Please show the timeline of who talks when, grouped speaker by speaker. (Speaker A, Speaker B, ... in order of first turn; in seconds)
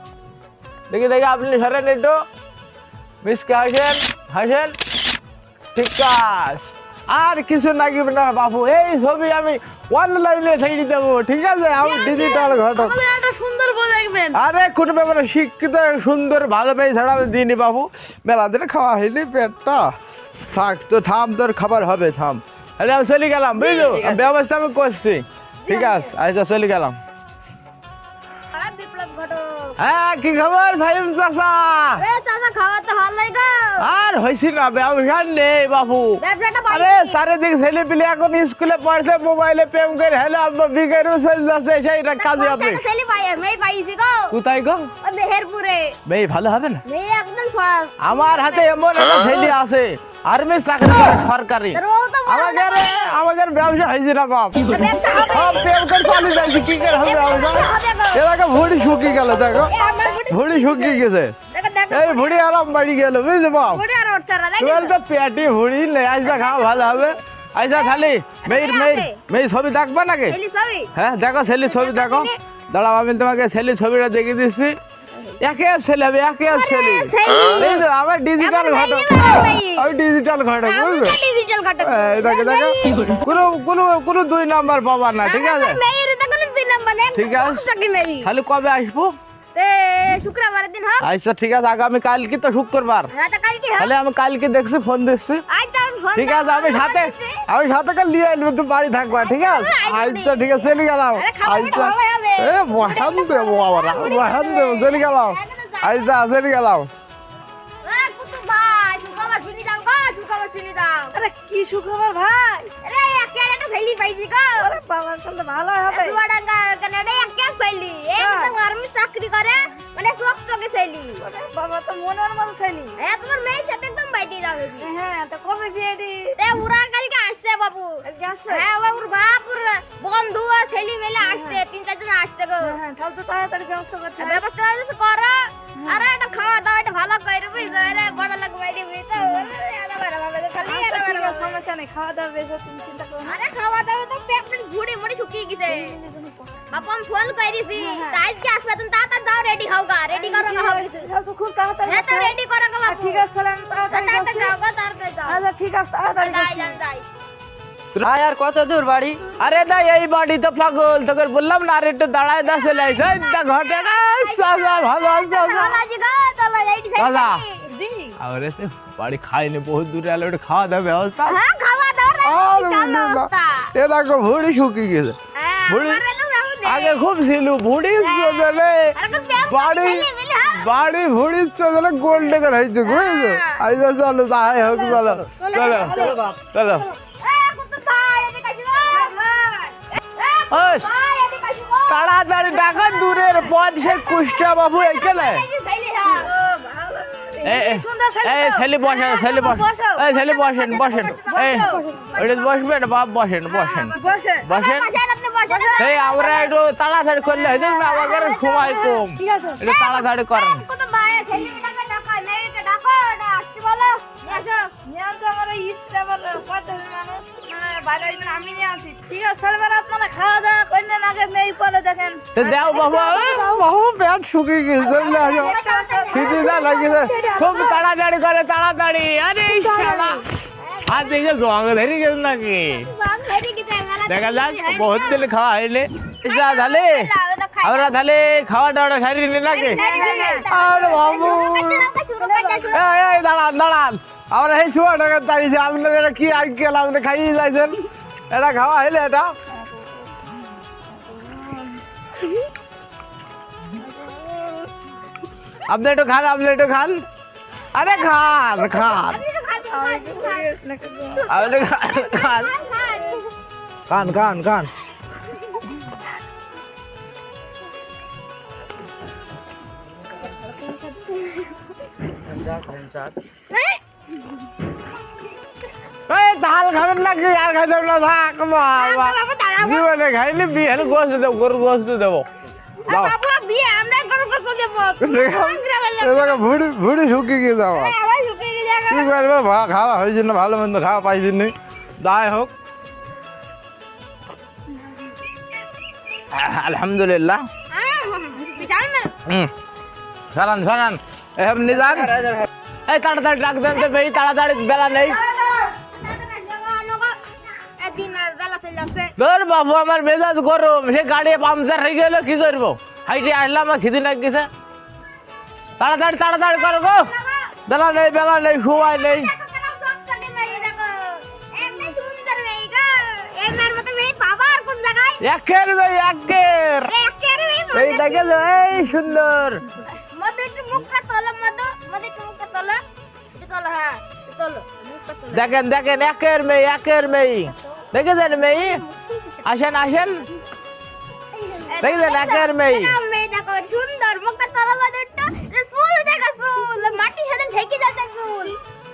Speaker A: 0.9-2.2, 3.2-4.8, 5.7-13.0, 14.3-19.9, 20.5-27.0, 29.8-32.0, 33.8-42.8, 44.3-44.9, 46.1-46.8, 48.0-54.7, 55.3-59.7, 60.3-61.3, 61.9-63.8, 64.6-70.4, 71.0-74.8, 75.4-79.1, 79.8-81.2, 81.8-85.8, 87.2-87.7, 88.2-89.2, 91.0-93.1, 93.8-95.4, 96.2-106.9, 159.4-165.8, 167.0-167.4, 168.2-171.4, 172.2-175.2, 175.7-176.0, 176.7-186.9, 190.5-190.9, 191.9-195.5, 197.4-203.9, 204.5-204.9, 205.8-210.6, 222.3-225.6, 226.1-230.2, 230.9-232.9, 234.1-237.1, 237.6-239.8, 240.5-241.9, 242.7-249.3, 255.7-257.0, 257.8-259.2, 261.3-262.6, 263.9-264.7, 276.1-282.3, 282.9-283.1, 285.0-287.9, 288.9-292.5, 296.3-297.5, 299.2-299.5, 300.3-302.2, 302.9-305.2, 309.2-314.5, 315.8-317.1, 317.7-319.3, 325.2-326.9, 327.7-329.6, 335.3-338.8, 339.4-340.2, 341.8-343.0
Speaker B: 11.8-14.4, 111.1-112.7, 114.6-116.2, 118.2-118.5, 121.2-123.0, 124.8-126.4, 128.0-128.7, 131.2-131.6, 132.6-134.4, 135.8-136.1, 137.7-138.2, 139.2-139.5, 140.6-143.4, 145.7-146.6, 147.8-148.3, 150.1-154.6, 155.2-156.8, 167.8-168.2, 185.7-185.9, 188.9-189.8, 196.1-200.0, 201.2-202.2, 203.9-204.5, 205.5-206.0, 209.2-209.6, 214.3-222.3, 225.1-227.8, 229.5-230.2, 239.8-240.4, 242.2-242.8, 250.9-251.8, 253.8-254.4, 259.7-261.3
Speaker C: 23.6-24.2, 25.6-26.1, 28.5-29.8, 32.0-33.9, 36.2-37.2, 42.2-44.4, 45.0-46.0, 46.9-48.8, 51.7-53.2, 54.7-58.2, 59.0-62.4, 63.6-65.0, 66.3-67.2, 67.7-69.2, 70.3-70.9, 71.7-72.4, 76.5-77.9, 78.4-79.9, 80.6-83.2, 85.2-88.3, 89.5-91.1, 93.1-93.9, 95.5-97.4, 99.1-106.1, 107.8-111.2, 112.8-114.7, 115.9-121.2, 123.0-124.9, 126.4-132.8, 134.2-141.6, 143.2-146.0, 146.7-151.1, 151.8-153.3, 153.9-155.4, 156.2-157.1, 162.4-167.7, 171.3-173.7, 175.3-177.1, 178.0-180.7, 182.8-183.6, 185.4-186.2, 187.2-189.1, 190.2-196.3, 200.1-202.7, 203.5-206.6, 207.2-209.1, 209.6-214.7, 222.4-223.6, 224.8-227.8, 230.6-231.3, 232.7-235.3, 236.2-238.0, 239.5-243.1, 257.9-260.6, 261.2-263.3, 271.0-271.4, 273.5-273.8, 278.7-279.9, 282.9-286.5, 287.7-289.1, 297.7-299.1, 304.7-309.1, 316.3-317.6, 318.7-325.2, 326.9-328.5, 329.9-332.8, 333.4-335.6, 338.6-339.5, 341.5-348.6
Speaker D: 158.0-159.2, 185.9-186.4, 272.3-273.1